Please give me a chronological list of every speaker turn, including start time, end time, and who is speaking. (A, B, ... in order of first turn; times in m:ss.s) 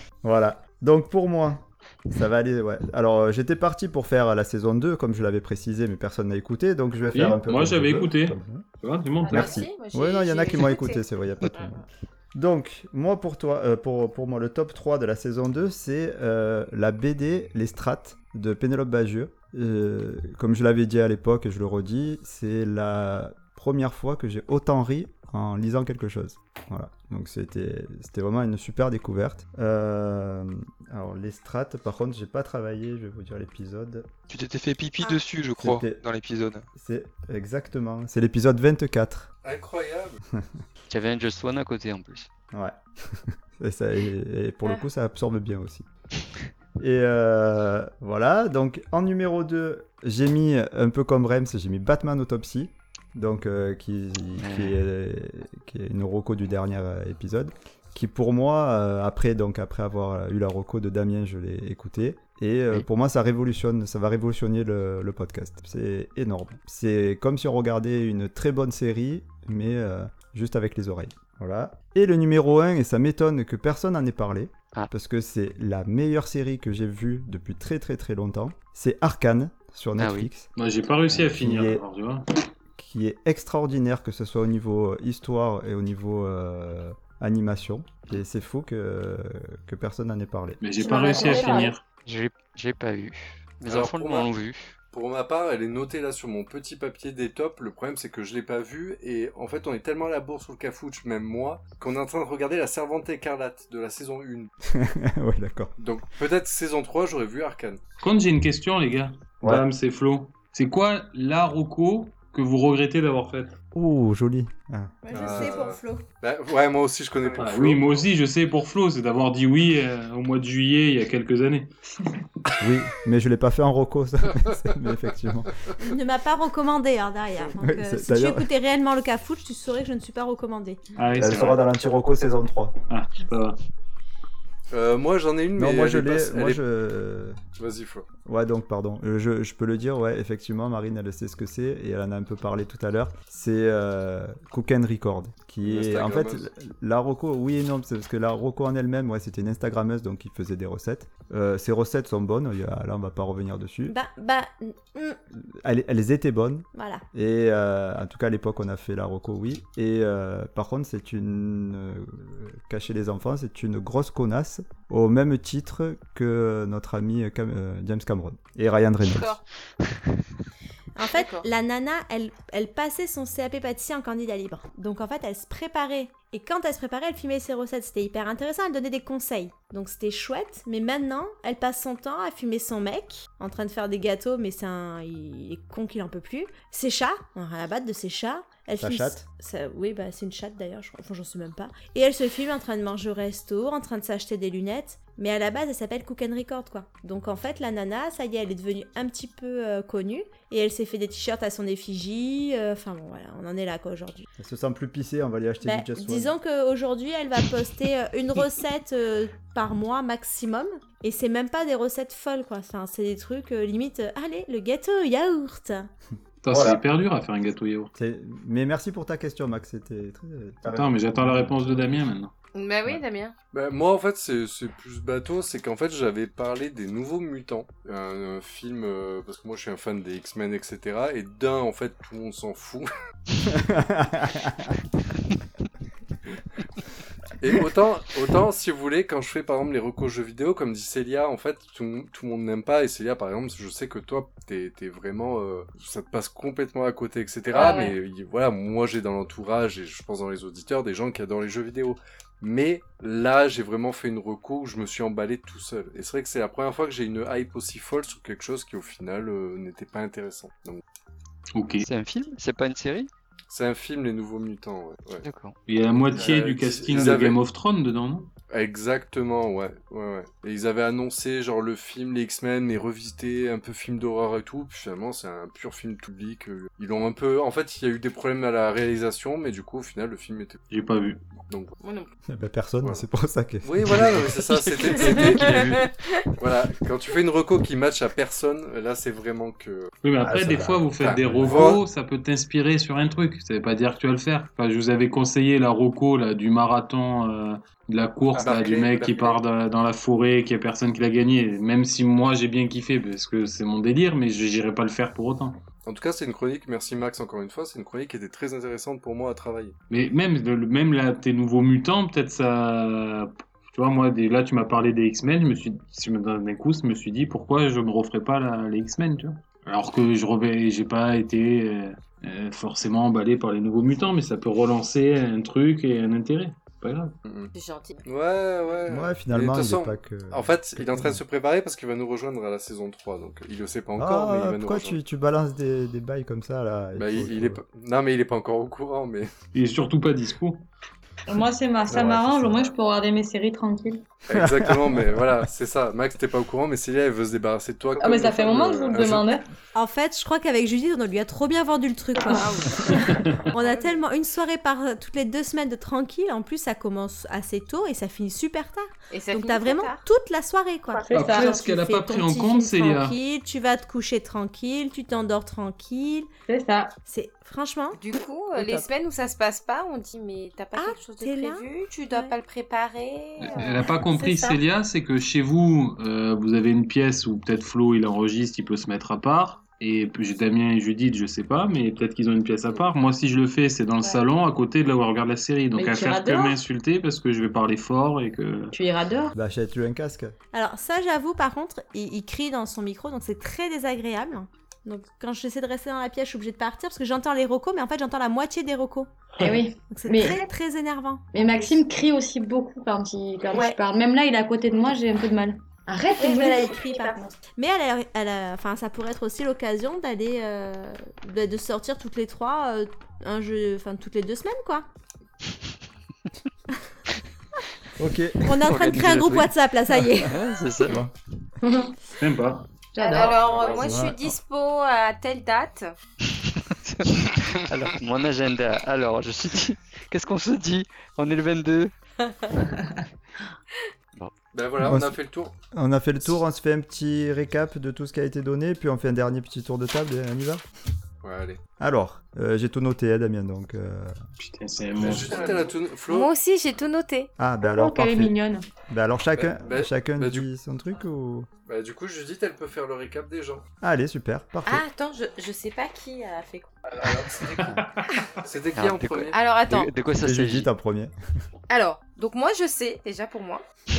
0:00.2-0:08.7 A
0:07.1-0:09.6 B
0:09.2-0:11.7 C
0:09.3-0:34.1 A
0:34.3-0:36.6 D
0:35.6-0:36.0 A
0:36.8-0:39.3 A
0:39.4-0:40.2 E
0:40.3-0:40.6 A
0:40.9-0:42.3 F
0:42.5-0:45.9 A
0:46.8-1:20.5 A
0:54.4-0:54.8 F
1:20.0-1:20.3 F
1:20.6-1:22.3 B
1:21.1-1:21.8 A
1:22.8-1:30.6 A
1:30.6-1:31.8 B
1:30.8-1:31.7 G
1:32.1-1:34.7 F
1:33.7-1:34.3 E
1:34.9-1:44.5 E
1:44.6-1:45.7 A
1:45.8-1:47.8 E
1:48.0-1:53.6 B
1:53.7-1:55.5 A
1:55.1-1:56.0 H
1:55.1-1:55.8 C
1:55.1-1:58.1 E
1:57.3-2:01.7 B
2:02.6-2:05.5 A
2:05.8-2:10.8 H
2:07.6-2:08.5 A
2:11.0-2:11.6 B
2:11.1-2:12.8 A
2:12.9-2:13.6 B
2:14.7-2:16.6 E
2:15.6-2:17.4 A
2:17.6-2:18.1 E
2:18.2-2:34.0 A
2:25.6-2:26.4 E
2:33.9-2:35.2 H
2:35.3-2:49.3 A
2:36.8-2:37.0 H
2:49.0-2:49.4 C
2:51.0-3:24.3 H
2:51.1-2:51.5 C
3:08.8-3:09.2 A
3:24.4-3:26.4 A
3:25.6-3:35.9 H
3:36.4-3:37.9 B
3:36.5-3:36.8 A
3:38.0-3:41.7 A
3:40.6-3:42.3 B
3:42.5-3:43.3 C
3:43.5-3:52.9 E
3:53.5-3:54.8 A
3:57.4-4:20.8 E
4:07.5-4:08.0 C
4:21.6-4:21.9 B
4:21.8-4:23.1 F
4:23.5-4:25.2 E
4:25.2-4:25.6 F
4:25.7-4:28.3 B
4:26.1-4:27.4 E
4:28.5-4:40.6 E
4:40.7-4:41.2 B
4:41.5-4:41.7 E
4:41.8-4:42.1 C
4:42.3-4:45.6 A
4:43.6-4:49.9 E
4:45.2-4:45.6 C
4:50.0-5:05.6 B
4:50.2-4:51.8 A
4:51.0-4:51.8 E
4:58.3-4:59.4 E
5:05.8-5:09.8 E
5:09.9-5:27.1 B
5:27.2-5:27.5 E
5:27.6-5:28.0 C
5:28.0-5:35.0 E
5:28.9-5:31.2 A
5:34.0-5:37.6 A
5:37.0-5:39.3 E
5:39.5-5:40.7 B
5:41.3-5:44.0 G
5:41.9-5:42.7 A
5:44.3-5:49.3 E
5:44.3-5:45.3 A
5:48.0-5:49.5 G
5:49.8-6:06.3 H
5:52.2-5:54.0 C
5:53.1-5:53.4 B
5:59.1-6:00.0 C
6:01.0-6:01.6 G
6:01.1-6:03.2 B
6:06.5-6:07.0 G
6:07.1-6:08.0 H
6:08.0-6:13.8 C
6:08.5-6:08.9 H
6:10.8-6:12.4 H
6:13.4-6:28.8 B
6:13.6-6:14.6 G
6:25.8-6:26.6 G
6:28.7-6:29.3 G
6:29.3-6:30.4 A
6:30.5-6:39.1 H
6:39.4-6:40.5 G
6:39.9-6:41.8 H
6:41.3-6:47.4 G
6:46.1-6:54.9 H
6:58.0-6:58.8 A
6:58.4-7:00.4 H
6:58.6-6:59.5 F
7:00.2-7:01.0 F
7:00.9-7:01.1 A
7:01.6-7:02.0 G
7:02.2-7:02.6 B
7:02.9-7:03.5 G
7:03.0-7:05.9 C
7:03.2-7:03.9 E
7:03.8-7:04.4 A
7:06.7-7:11.9 F
7:14.5-7:15.5 E
7:14.8-7:15.2 A
7:15.7-7:20.6 A
7:21.2-7:21.6 E
7:21.8-7:24.2 A
7:24.4-7:25.4 B
7:25.0-7:26.3 E
7:25.3-7:27.3 C
7:27.4-7:28.4 A
7:27.8-7:28.7 G
7:28.9-7:31.5 A
7:29.4-7:30.5 E
7:31.7-7:33.7 E
7:33.8-7:34.8 A
7:34.7-7:36.8 C
7:37.0-7:37.5 E
7:37.5-7:38.1 B
7:38.4-7:39.4 E
7:38.8-7:40.7 F
7:39.3-7:39.9 C
7:40.2-7:41.1 A
7:41.7-7:43.6 C